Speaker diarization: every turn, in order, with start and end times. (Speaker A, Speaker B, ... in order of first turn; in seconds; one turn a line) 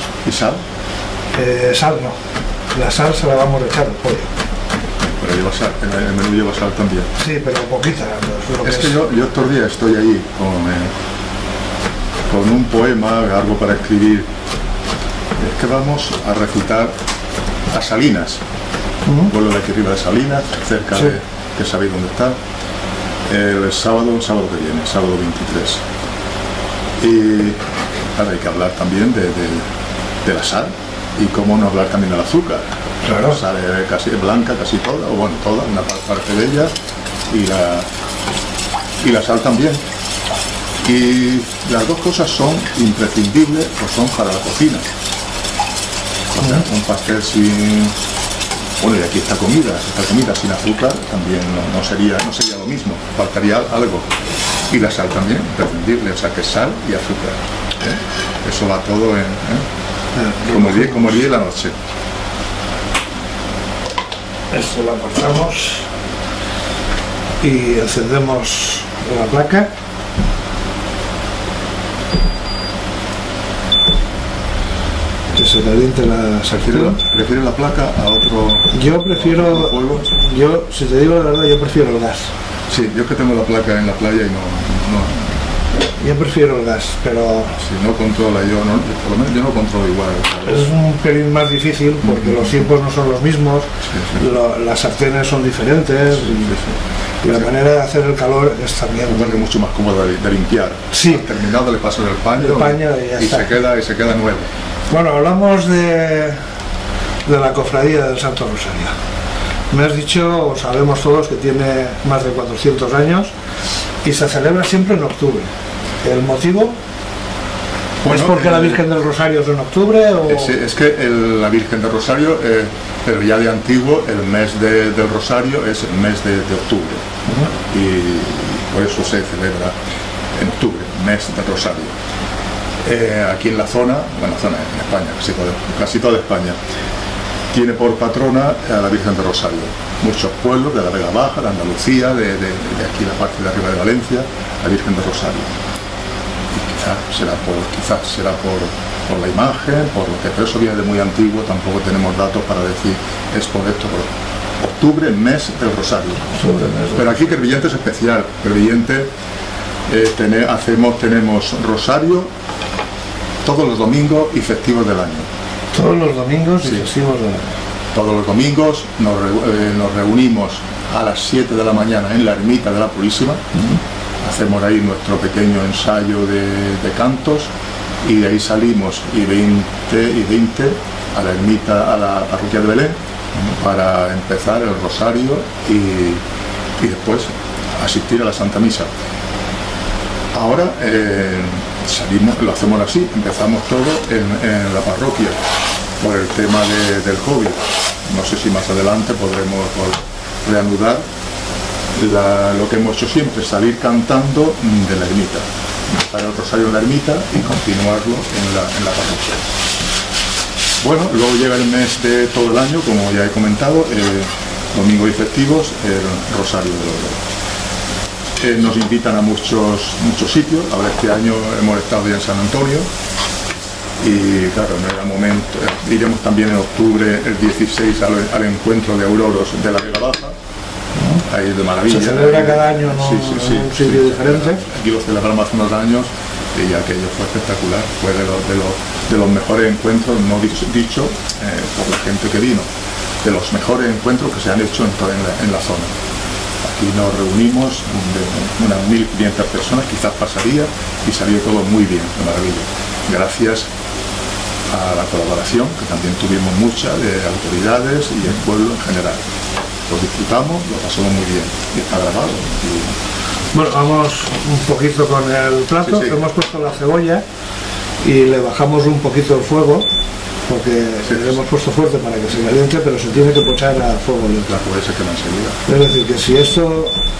Speaker A: 0.2-0.6
Speaker B: 1.3-2.2
Speaker B: 2.7-4.3
Speaker A: 5.0-7.1
Speaker B: 7.2-9.0
Speaker A: 8.6-10.9
Speaker A: 12.3-14.3
Speaker A: 15.3-16.9
Speaker A: 17.7-18.4
Speaker A: 19.3-22.4
Speaker A: 23.3-25.8
Speaker A: 27.0-27.6
Speaker A: 28.1-29.7
Speaker A: 30.2-36.7
Speaker B: 33.0-33.4
Speaker A: 37.3-37.9
Speaker A: 39.0-39.8
Speaker A: 40.8-44.9
Speaker A: 46.3-48.0
Speaker A: 48.8-54.1
Speaker A: 54.7-59.7
Speaker B: 60.2-61.2
Speaker A: 60.5-61.8
Speaker B: 64.5-65.9
Speaker B: 67.4-69.7
Speaker B: 75.4-77.0
Speaker A: 76.5-80.1
Speaker B: 78.7-82.3
Speaker A: 82.7-85.4
Speaker B: 86.0-87.6
Speaker A: 87.5-90.7
Speaker B: 90.5-96.6
Speaker A: 92.0-92.6
Speaker A: 93.8-94.2
Speaker A: 96.2-97.5
Speaker B: 97.2-99.5
Speaker A: 99.1-104.5
Speaker B: 100.9-101.2
Speaker B: 102.4-103.5
Speaker B: 104.9-106.4
Speaker B: 107.3-108.9
Speaker B: 109.7-113.3
Speaker B: 114.0-115.5
Speaker B: 116.0-116.8
Speaker A: 118.0-118.8
Speaker B: 118.0-120.5
Speaker A: 120.2-127.0
Speaker B: 127.3-127.5
Speaker A: 127.7-129.7
Speaker A: 130.3-132.0
Speaker A: 132.8-136.6
Speaker A: 137.5-145.6
Speaker A: 146.5-159.1
Speaker B: 156.4-157.3
Speaker A: 159.9-162.3
Speaker A: 163.4-165.3
Speaker B: 165.7-167.5
Speaker A: 167.9-173.6
Speaker A: 174.2-177.5
Speaker A: 178.0-186.2
Speaker A: 186.8-188.9
Speaker A: 190.3-195.4
Speaker A: 196.0-201.0
Speaker A: 201.9-209.5
Speaker A: 210.8-217.2
Speaker A: 218.4-222.9
Speaker A: 224.0-230.4
Speaker B: 231.0-231.2
Speaker A: 231.2-242.7
Speaker B: 231.9-234.6
Speaker A: 243.2-246.0
Speaker A: 246.6-253.7
Speaker A: 254.7-259.2
Speaker A: 259.9-263.0
Speaker B: 263.5-267.2
Speaker A: 265.9-266.2
Speaker B: 268.0-269.9
Speaker B: 270.5-274.5
Speaker A: 271.1-271.4
Speaker A: 274.5-275.6
Speaker B: 275.7-277.0